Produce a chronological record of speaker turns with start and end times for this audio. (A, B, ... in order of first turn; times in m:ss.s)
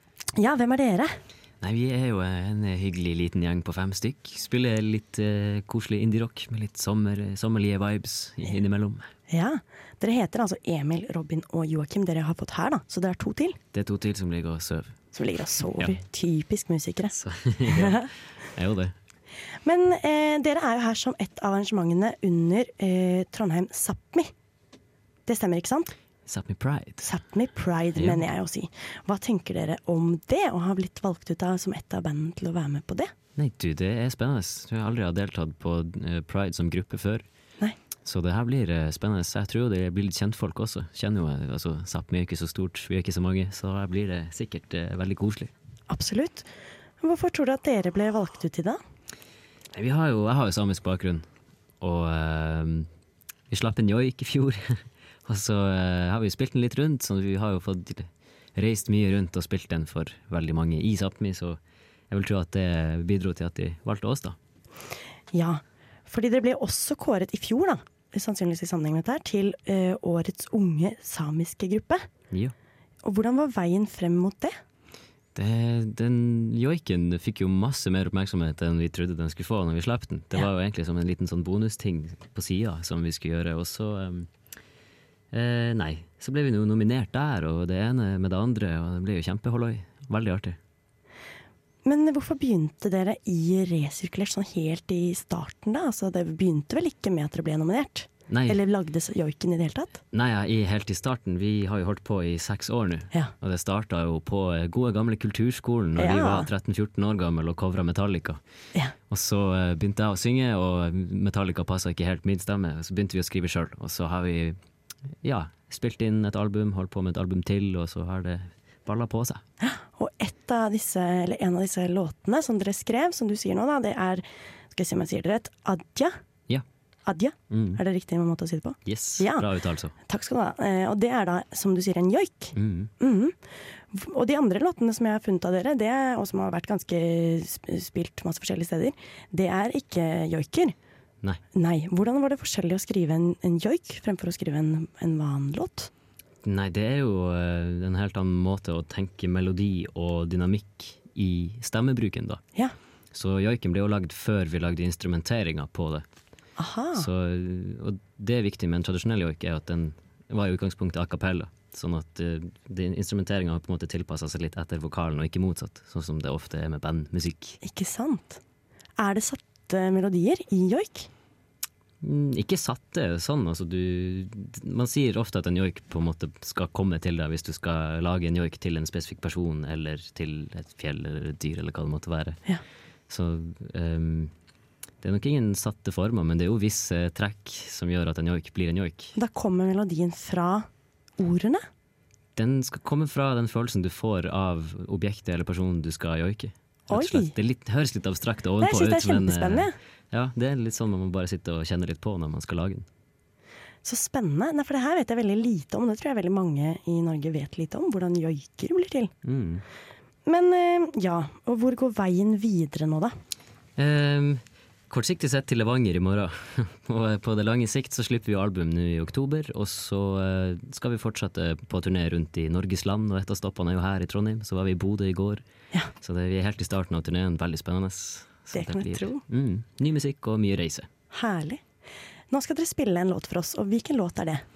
0:00.4-0:01.2 A
0:01.6-0:09.1 B
0:09.3-0:13.6 A
0:13.7-0:15.0 B
0:15.1-0:17.1 A
0:17.1-0:18.9 B
0:17.7-0:18.1 A
0:19.6-0:24.3 A
0:25.3-0:25.9 A
0:26.3-0:27.1 B
0:27.0-0:33.1 A
0:28.0-0:28.2 B
0:33.4-0:37.2 B
0:38.0-0:45.5 B
0:45.9-0:46.5 A
0:47.0-0:48.8 A
0:49.7-0:51.2 B
0:51.8-0:52.9 B
0:53.5-1:01.6 B
1:02.1-1:04.4 B
1:05.3-1:12.1 A
1:13.0-1:14.6 A
1:15.4-1:24.3 B
1:25.3-1:30.6 B
1:31.8-1:40.0 A
1:38.3-1:38.6 B
1:40.1-1:48.4 B
1:46.0-1:46.5 A
1:49.1-1:54.6 B
1:55.2-1:59.4 B
1:59.6-2:06.2 A
2:07.1-2:09.5 A
2:07.5-2:07.8 B
2:08.9-2:09.9 B
2:10.1-2:13.4 A
2:12.6-2:12.9 B
2:13.9-2:20.8 A
2:21.5-2:25.9 A
2:26.4-2:32.4 B
2:33.1-2:36.0 B
2:36.6-2:37.1 A
2:37.0-2:47.6 B
2:47.6-2:48.4 A
2:49.0-2:51.1 A
2:52.0-3:02.4 B
3:03.1-3:04.3 B
3:05.0-3:09.1 B
3:09.2-3:11.7 A
3:12.4-3:22.9 B
3:16.9-3:17.3 A
3:18.6-3:19.8 A
3:23.8-3:29.1 A
3:29.2-3:29.6 B
3:30.3-3:33.2 A
3:33.8-3:45.4 B
3:46.0-3:50.9 B
3:48.5-3:49.2 A
3:51.1-3:51.6 A
3:52.3-3:54.4 A